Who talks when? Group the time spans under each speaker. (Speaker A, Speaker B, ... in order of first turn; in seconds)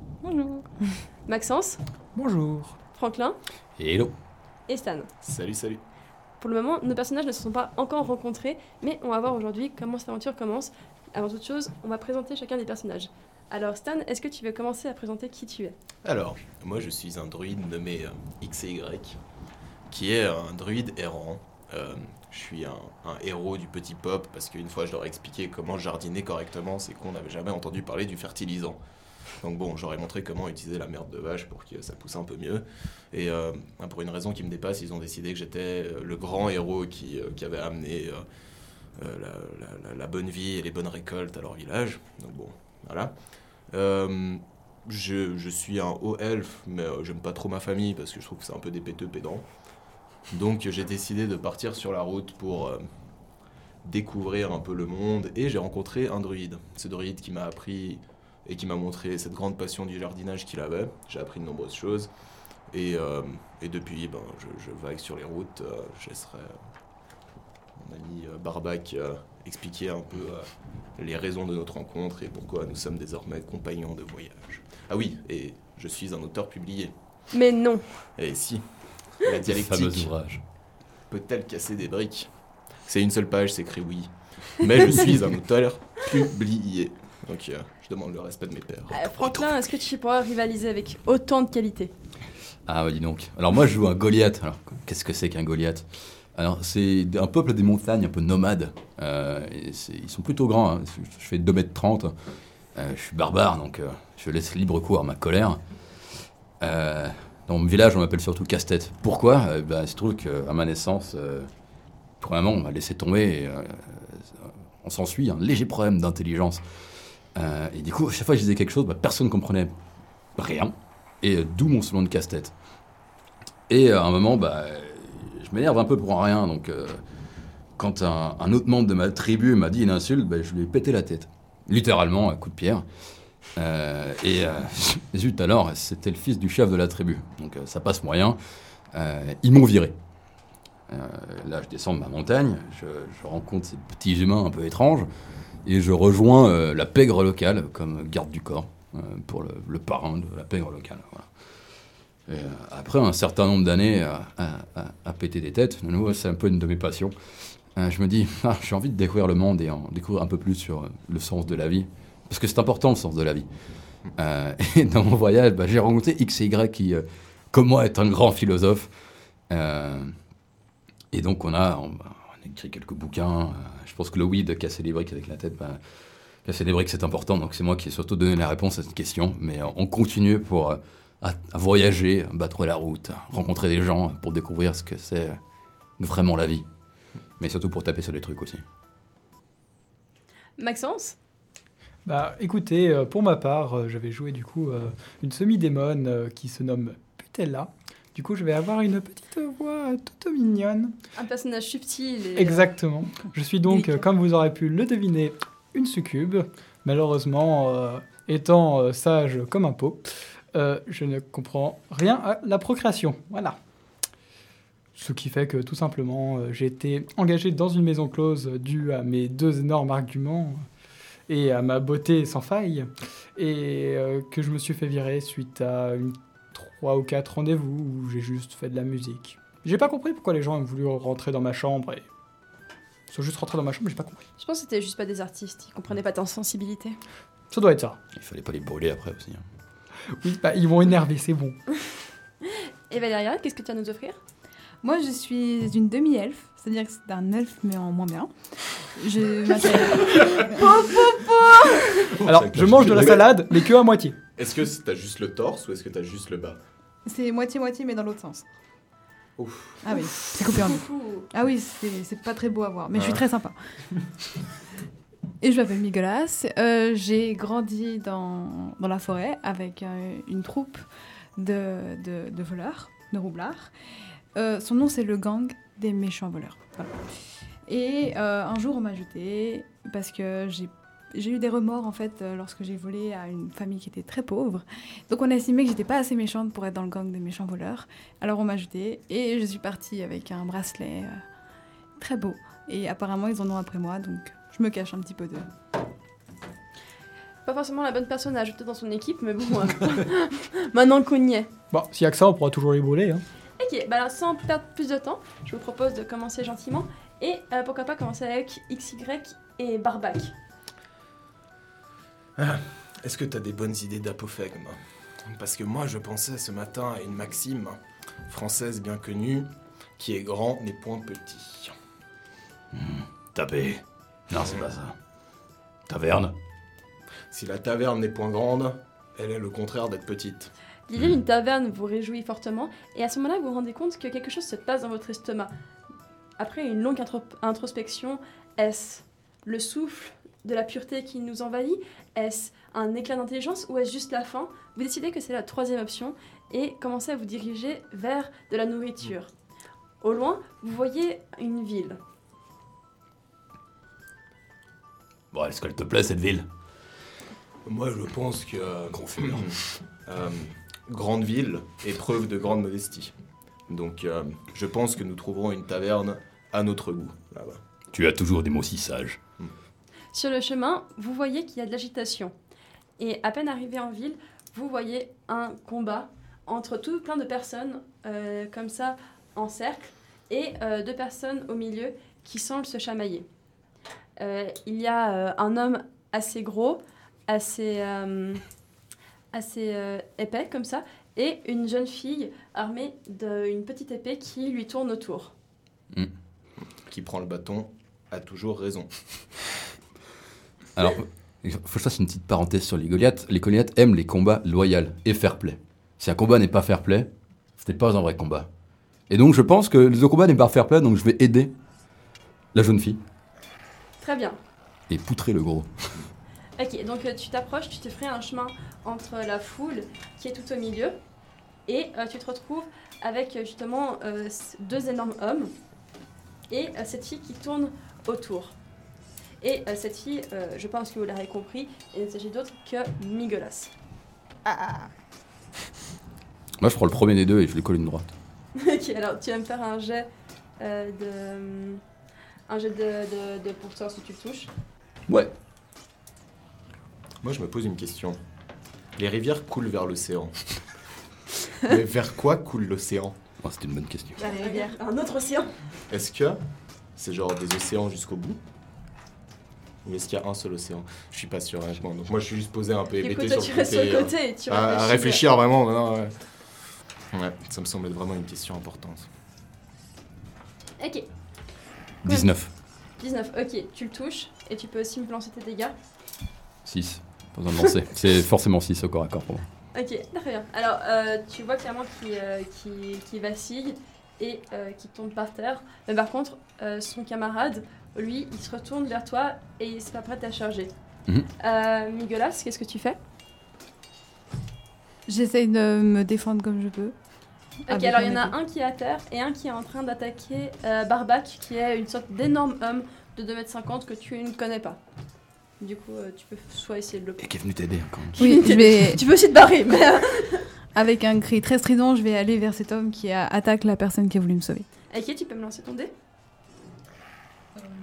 Speaker A: 0.2-1.0, 244.8-248.3, 248.9-250.6, 257.1-258.4, 259.8-263.5, 265.4-270.8, 271.4-273.7, 274.3-276.9, 277.6-291.2, 292.0-295.5, 434.5-434.7, 454.2-454.8, 495.1-496.9, 497.7-498.3, 508.2-509.0, 510.7-514.7
Speaker B: 1.3-1.8, 2.9-3.4, 4.7-5.1, 6.4-15.7, 77.3-77.8, 88.9-91.9, 190.6-191.2, 201.1-202.6, 234.4-237.0, 242.4-244.2, 250.1-251.5, 260.4-261.3, 297.4-301.5, 303.6-310.3, 330.9-335.5, 336.4-349.3, 350.0-352.0, 370.1-372.3, 373.0-383.3, 384.2-388.4, 389.3-395.3, 414.0-414.4, 416.6-420.9, 421.7-425.5, 426.5-428.5, 429.4-433.7, 438.6-440.1, 440.6-441.8, 442.5-444.5, 454.2-455.5, 463.0-465.2, 470.8-471.1, 473.0-475.7, 479.7-490.7, 491.4-493.0, 497.7-504.8, 505.6-507.2, 508.1-510.4, 514.9-515.9
Speaker C: 2.1-2.8, 192.1-200.9, 202.4-213.6, 214.9-220.6, 221.3-232.1, 233.1-234.2, 237.5-238.0, 240.1-241.6, 252.1-254.2, 301.7-303.2
Speaker D: 3.8-4.1, 79.4-80.4, 92.7-102.1, 102.7-105.6, 106.6-111.5, 112.2-116.6, 117.3-119.7, 120.3-122.5, 123.7-127.0, 127.8-132.8, 133.6-138.4, 138.9-139.9, 140.9-145.1, 145.6-151.3, 152.3-157.1, 157.7-163.5, 164.1-168.9, 169.5-170.1, 171.1-175.8, 176.4-185.4, 186.0-186.6, 187.4-188.6, 238.1-239.4, 322.7-324.9, 325.9-326.3, 355.3-356.5, 358.9-359.5, 367.9-369.2, 400.8-408.5, 409.1-411.5, 412.5-413.0, 414.9-415.7, 436.6-438.1, 445.1-445.3, 453.4-454.2, 472.0-472.5, 476.6-479.5, 507.2-508.3
Speaker E: 5.2-5.8, 16.0-19.2, 19.9-28.8, 29.4-38.2, 39.0-43.1, 43.7-49.4, 50.3-52.8, 53.8-62.1, 62.7-66.5, 67.8-76.9, 78.2-78.6, 79.2-80.1, 81.1-82.3, 82.8-89.5, 252.0-253.2, 254.3-256.6, 259.4-259.8, 262.9-263.2, 312.4-321.7, 327.3-330.5, 357.6-363.1, 363.7-367.6, 396.8-398.9, 447.2-448.2, 448.9-450.3, 451.6-453.1, 455.9-456.4, 456.9-458.4, 459.8-466.1, 467.1-469.1